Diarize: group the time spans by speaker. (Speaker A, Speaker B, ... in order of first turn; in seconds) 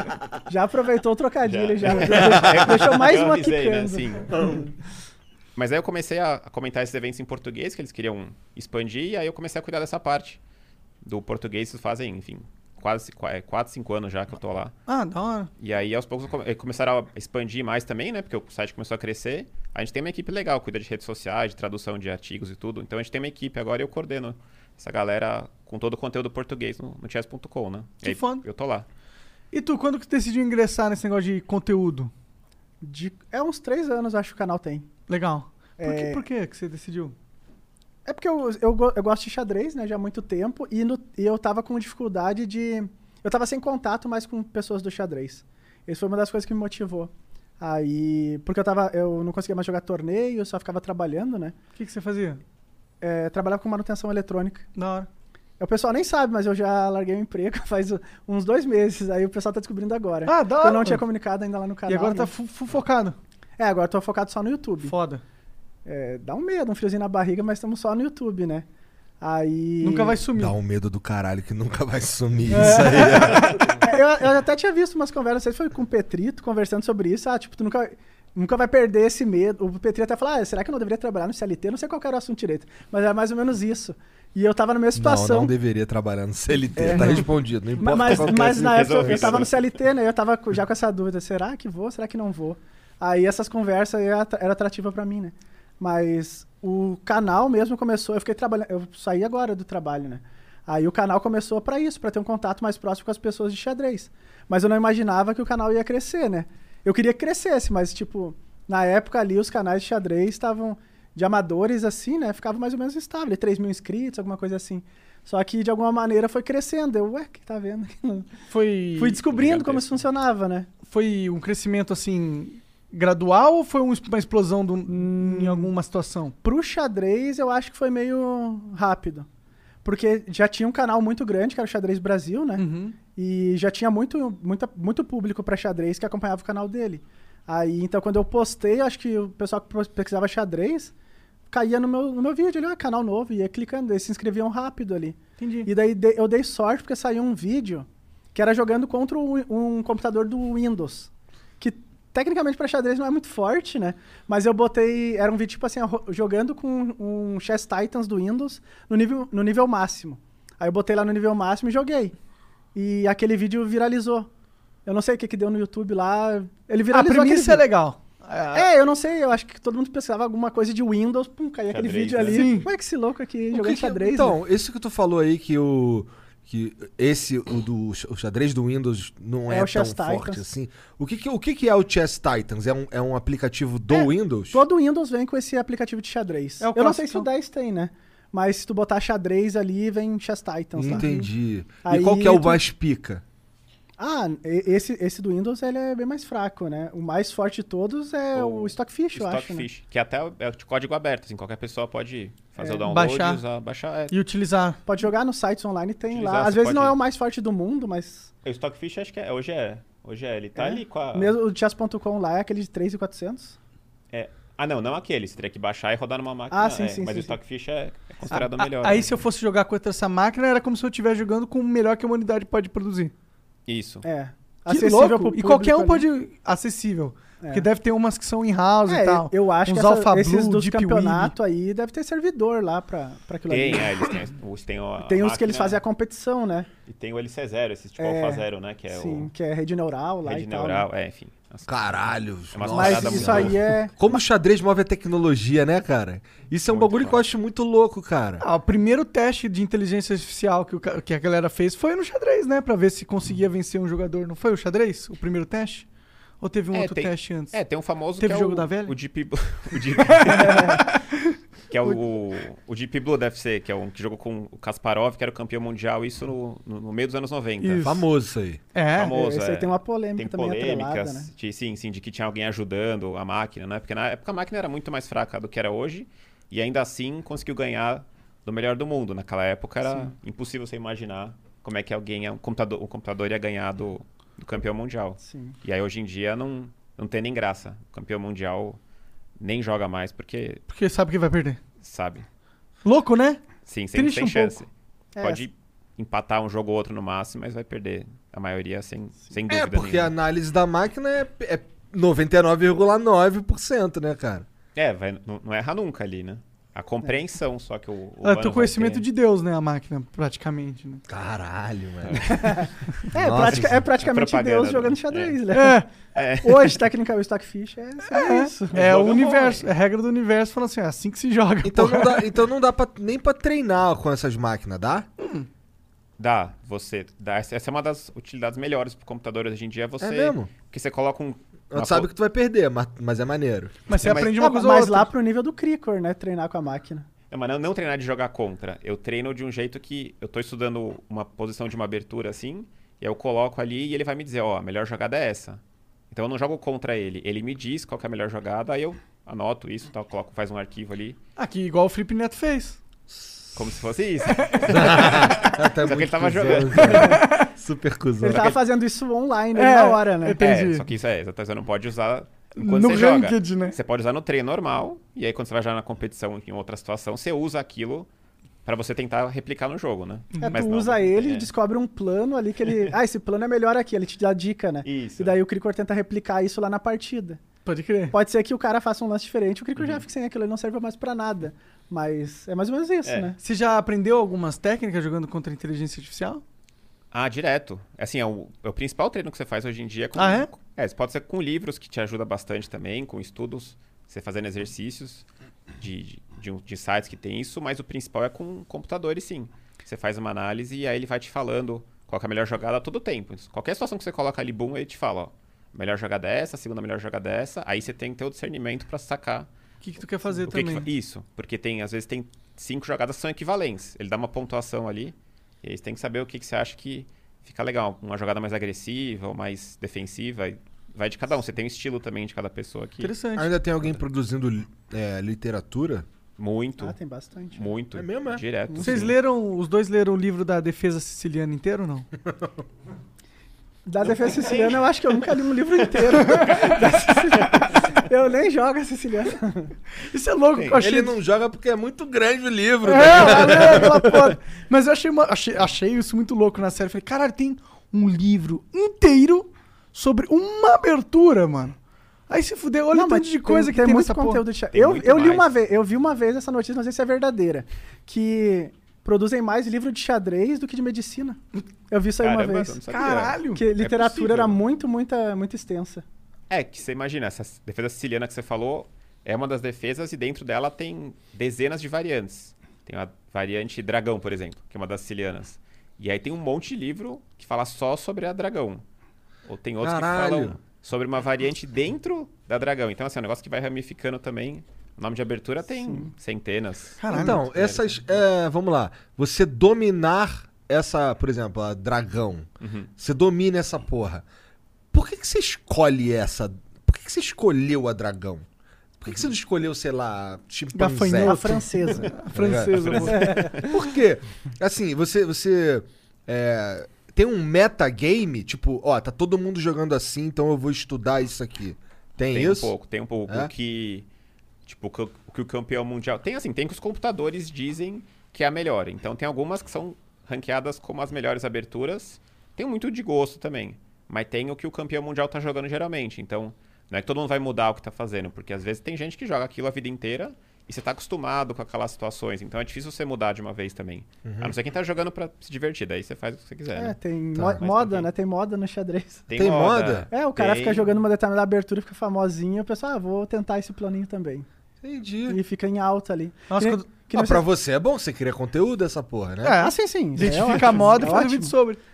Speaker A: 0.5-4.7, 32.8-34.9, 35.8-36.2, 38.1-51.6, 53.0-54.7, 55.6-62.3, 63.6-64.9, 65.8-68.7, 69.2-70.2, 72.7-85.5, 86.8-87.3, 87.8-118.3, 119.0-120.7, 124.9-125.7, 126.4-129.3, 129.8-140.9, 141.5-162.1, 162.7-164.3, 164.8-167.6, 168.5-174.4, 179.5-180.4, 183.9-191.2, 191.8-192.6, 194.0-199.7, 202.6-202.8, 204.9-208.3, 210.6-213.6, 216.5-217.3, 224.0-226.1, 227.4-227.7, 228.9-234.1, 235.0-236.7, 238.0-240.9, 242.7-244.0, 260.3-260.8, 269.1-271.3, 279.9-280.1, 285.2-285.6, 295.1-295.4, 312.3-315.8, 316.4-318.7, 334.4-337.1, 358.2-360.4, 370.4-377.4, 378.1-383.4, 426.8-427.7, 428.7-428.9, 433.9-439.7, 452.9-462.8, 463.5-466.1, 485.8-486.1, 501.2-502.2, 503.2-503.5, 536.7-539.2, 540.1-544.5, 545.3-547.4, 549.5-551.5
Speaker B: 1.4-4.5, 5.6-10.4, 11.0-14.7, 15.6-28.9, 88.0-89.6, 119.3-120.0, 171.7-172.6, 198.3-204.1, 206.1-207.0, 208.4-211.3, 214.1-219.1, 223.7-224.1, 233.5-235.8, 236.9-239.3, 240.2-241.7, 242.5-243.6, 246.7-247.2, 256.7-260.8, 261.7-267.9, 268.9-288.8, 289.4-290.6, 291.8-292.2, 293.6-294.7, 295.2-300.1, 304.7-309.1, 312.0-312.4, 313.4-315.4, 316.1-316.8, 318.7-319.7, 326.2-332.1, 333.9-334.4, 337.3-351.2, 353.6-357.2, 358.2-358.6, 360.4-368.1, 368.6-371.5, 374.8-375.4, 379.8-380.1, 383.0-383.3, 387.1-395.2, 395.8-409.5, 410.4-423.1, 426.4-426.9, 427.6-429.1, 434.1-434.9, 436.3-436.7, 454.7-455.5, 462.2-464.6, 466.5-478.8, 479.4-488.2, 492.6-492.9, 502.8-503.7, 512.3-514.1, 514.6-537.0, 537.6-538.1, 539.3-540.9
Speaker C: 14.9-15.5, 28.0-28.4, 29.5-32.1, 35.1-37.1, 51.8-52.4, 54.8-55.1, 60.2-61.0, 61.9-63.2, 64.8-65.2, 69.8-70.6, 72.5-73.7, 118.5-119.2, 120.9-126.4, 132.6-133.0, 145.4-145.7, 166.9-168.7, 172.3-172.7, 186.6-187.3, 202.9-203.4, 204.1-204.8, 218.3-223.1, 224.7-231.3, 248.4-255.9, 256.4-257.6, 258.2-258.9, 260.1-261.3, 267.6-268.0, 268.7-269.1, 290.7-291.6, 292.9-293.4, 293.9-294.6, 308.2-311.0, 315.5-315.9, 318.1-322.3, 325.2-325.5, 333.9-335.1, 351.4-352.8, 357.1-357.5, 359.6-360.9, 362.6-363.8, 370.3-370.6, 377.6-378.1, 383.4-386.4, 390.1-390.5, 409.8-410.9, 423.0-423.5, 428.8-432.1, 440.0-441.1, 442.8-451.8, 452.3-454.4, 462.9-463.6, 487.0-487.4, 500.7-503.5, 546.5-546.9, 549.4-551.8
Speaker D: 70.4-73.7, 84.9-89.5, 173.5-184.6, 190.8-193.2, 241.7-248.4, 267.8-268.6, 299.5-304.4, 311.1-312.3, 313.1-313.8, 321.6-325.1, 330.0-330.5, 331.7-333.8, 353.1-353.4, 354.7-358.5, 423.4-426.1, 427.9-428.4, 432.2-432.6, 440.8-444.2, 479.8-480.6, 487.1-494.2, 494.9-498.4, 499.0-501.6, 502.3-512.7, 534.2-534.6, 537.4-537.6, 539.4-540.1, 544.8-545.4, 547.1-549.6